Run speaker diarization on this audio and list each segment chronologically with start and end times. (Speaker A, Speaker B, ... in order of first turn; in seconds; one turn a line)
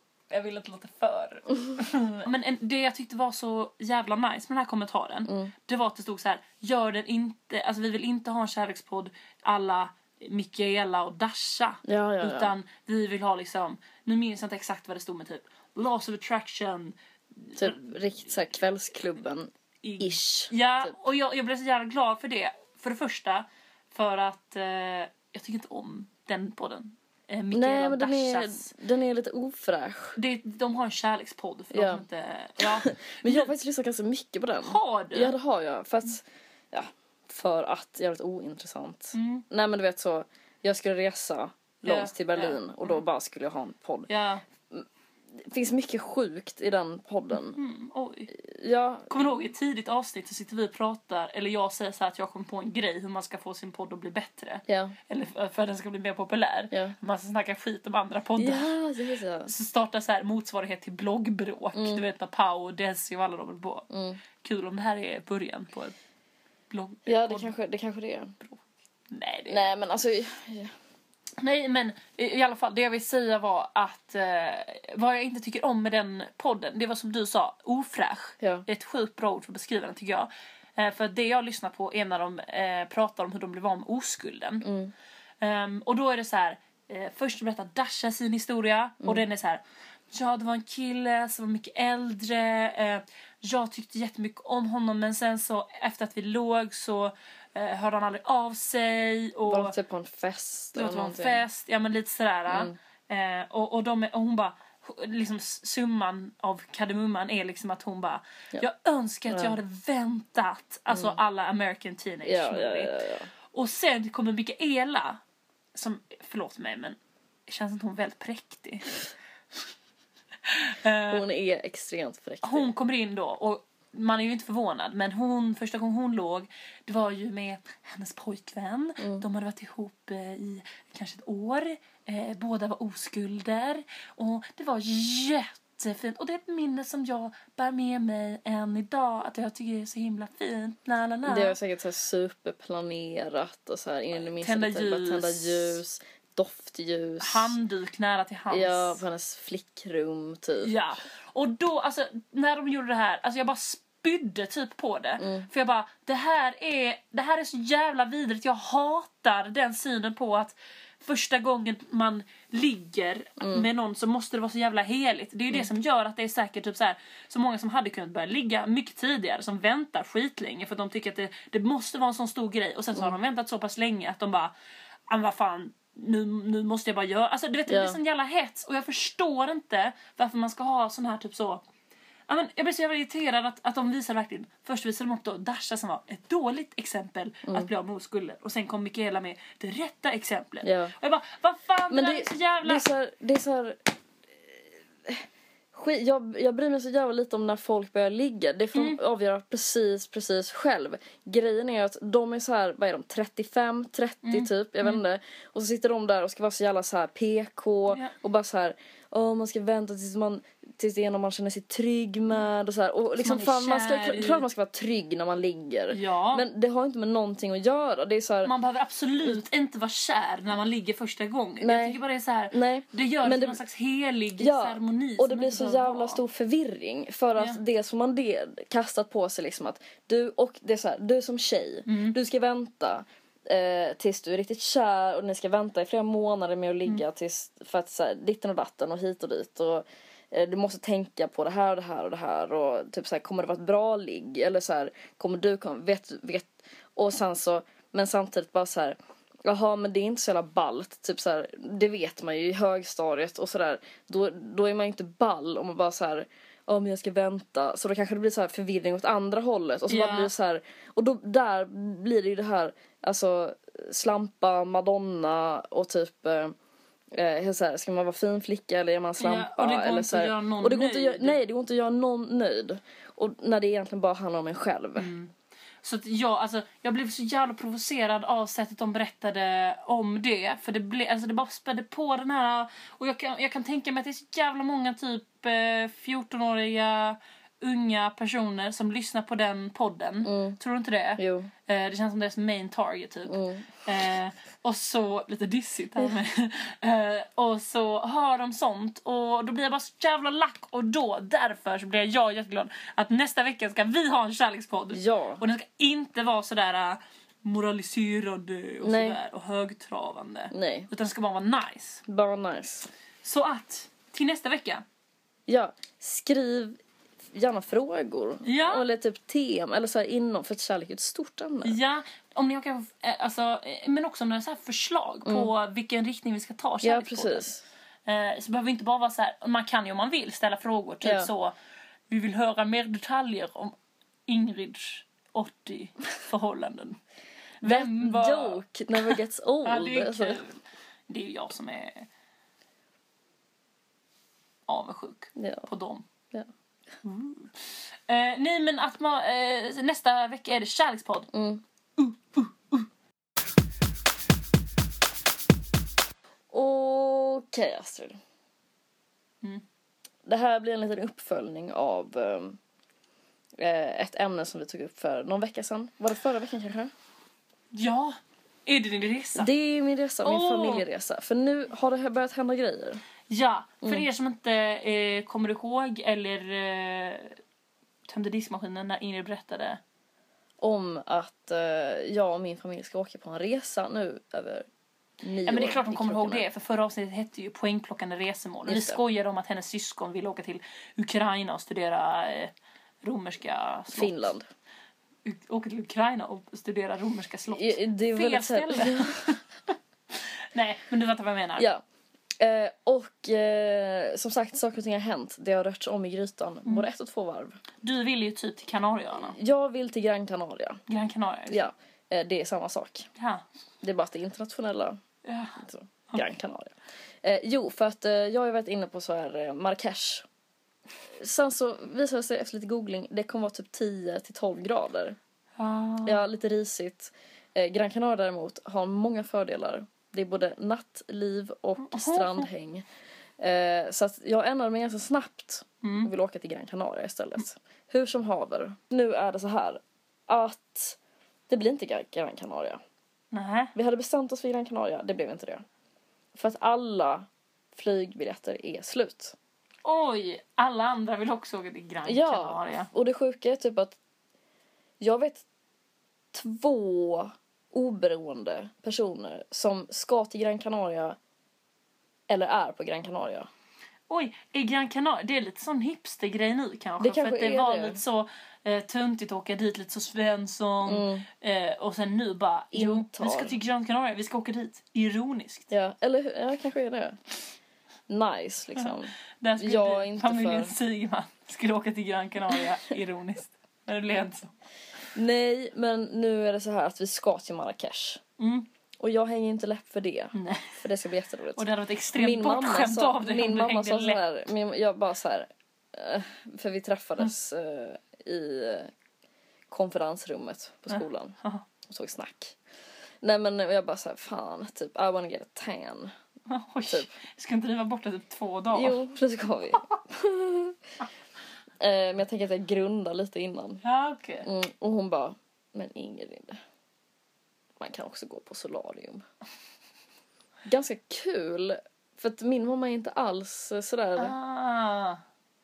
Speaker A: 0.3-17.9
Speaker B: 5.3-5.5
Speaker B: 11.8-12.5
Speaker B: 17.6-20.9
Speaker A: 19.8-28.7
Speaker B: 27.5-30.2
Speaker A: 30.1-33.5
Speaker B: 31.7-32.0
Speaker B: 32.6-44.1
Speaker A: 34.6-35.3
Speaker A: 39.1-39.4
Speaker A: 41.8-43.0
Speaker A: 44.1-44.4
Speaker B: 44.7-47.6
Speaker A: 47.5-48.3
Speaker B: 48.3-49.2
Speaker A: 49.1-58.7
Speaker B: 54.7-55.0
Speaker B: 58.4-59.5
Speaker A: 59.5-63.9
Speaker B: 61.7-62.0
Speaker B: 63.9-64.2
Speaker A: 64.4-65.9
Speaker A: 66.7-67.5
Speaker B: 67.1-68.3
Speaker A: 68.4-69.7
Speaker B: 69.5-70.7
Speaker A: 71.4-84.7
Speaker B: 78.4-78.7
Speaker B: 84.6-84.9
Speaker A: 85.4-99.7
Speaker B: 99.5-101.4
Speaker A: 100.7-113.0
Speaker B: 102.5-102.8
Speaker B: 109.3-109.6
Speaker B: 110.9-111.2
Speaker B: 112.2-113.3
Speaker A: 113.5-115.2
Speaker A: 115.7-119.0
Speaker A: 120.5-121.2
Speaker B: 121.1-122.7
Speaker A: 122.4-141.6
Speaker B: 129.0-129.2
Speaker B: 141.2-147.5
Speaker A: 144.1-145.8
Speaker A: 147.2-149.0
Speaker B: 148.5-150.7
Speaker A: 150.6-174.5
Speaker B: 155.2-155.5
Speaker B: 163.4-163.7
Speaker A: 175.1-181.6
Speaker B: 177.7-178.0
Speaker A: 182.3-192.9
Speaker B: 190.6-190.9
Speaker B: 191.9-193.8
Speaker B: 194.4-218.5
Speaker A: 198.7-199.0
Speaker A: 204.2-205.0
Speaker A: 213.2-214.4
Speaker A: 215.9-216.4
Speaker A: 218.4-226.2
Speaker B: 221.6-222.0
Speaker B: 222.5-223.6
Speaker B: 224.4-266.5
Speaker A: 231.9-232.2
Speaker A: 259.9-260.3
Speaker B: 267.1-275.1
Speaker A: 269.2-271.4
Speaker A: 274.9-312.0
Speaker B: 290.2-290.6
Speaker B: 291.2-291.5
Speaker B: 293.3-293.7
Speaker B: 304.9-305.4
Speaker B: 308.8-309.2
Speaker B: 310.5-310.9
Speaker B: 312.1-312.9
Speaker A: 313.2-314.8
Speaker B: 315.5-316.8
Speaker B: 317.3-321.8
Speaker A: 318.4-318.9
Speaker A: 321.6-327.5
Speaker B: 326.8-327.6
Speaker A: 328.1-331.5
Speaker B: 331.0-331.3
Speaker A: 332.1-333.7
Speaker A: 334.3-337.0
Speaker A: 337.6-342.1
Speaker B: 337.6-340.4
Speaker A: 344.7-346.0
Speaker B: 345.4-345.6
Speaker A: 347.0-351.3
Speaker B: 351.3-351.6
Speaker A: 352.0-352.9
Speaker B: 356.5-358.2
Speaker B: 360.2-362.6
Speaker B: 363.6-366.9
Speaker A: 367.7-369.5
Speaker B: 369.4-373.0
Speaker A: 370.2-370.8
Speaker A: 373.3-377.4
Speaker A: 378.1-379.8
Speaker B: 380.6-384.7
Speaker B: 385.2-386.4
Speaker A: 385.4-394.3
Speaker B: 388.6-389.0
Speaker B: 393.9-394.5
Speaker A: 395.2-399.4
Speaker B: 397.5-399.3
Speaker A: 400.1-401.7
Speaker B: 401.6-401.8
Speaker B: 402.4-407.6
Speaker A: 407.8-409.4
Speaker B: 409.2-410.8
Speaker A: 410.9-411.6
Speaker B: 411.5-413.1
Speaker A: 413.1-413.4
Speaker B: 413.8-415.0
Speaker A: 415.2-416.2
Speaker B: 415.6-420.2
Speaker B: 421.1-425.2
Speaker A: 425.6-426.2
Speaker B: 426.0-432.8
Speaker A: 431.8-432.5
Speaker B: 433.4-441.0
Speaker A: 435.8-436.1
Speaker B: 441.5-442.8
Speaker A: 443.3-443.7
Speaker B: 443.7-445.6
Speaker B: 446.3-449.4
Speaker A: 449.8-452.9
Speaker B: 452.0-454.0
Speaker B: 455.0-455.4
Speaker B: 456.3-461.2
Speaker B: 462.3-463.5
Speaker A: 464.1-475.7
Speaker B: 467.0-468.0
Speaker B: 470.8-471.2
Speaker B: 472.7-473.6
Speaker B: 475.7-477.2
Speaker B: 478.1-480.7
Speaker A: 478.8-484.5
Speaker B: 485.1-488.2
Speaker A: 488.4-488.7
Speaker B: 489.0-498.9
Speaker A: 490.3-490.8
Speaker A: 491.6-494.2
Speaker B: 499.7-502.6
Speaker A: 500.9-501.6
Speaker B: 503.2-506.1
Speaker A: 506.5-509.0
Speaker B: 508.7-510.8
Speaker B: 511.8-513.8
Speaker A: 513.8-514.5
Speaker B: 514.4-516.6
Speaker B: 517.8-519.2
Speaker B: 520.6-524.3
Speaker A: 524.1-525.2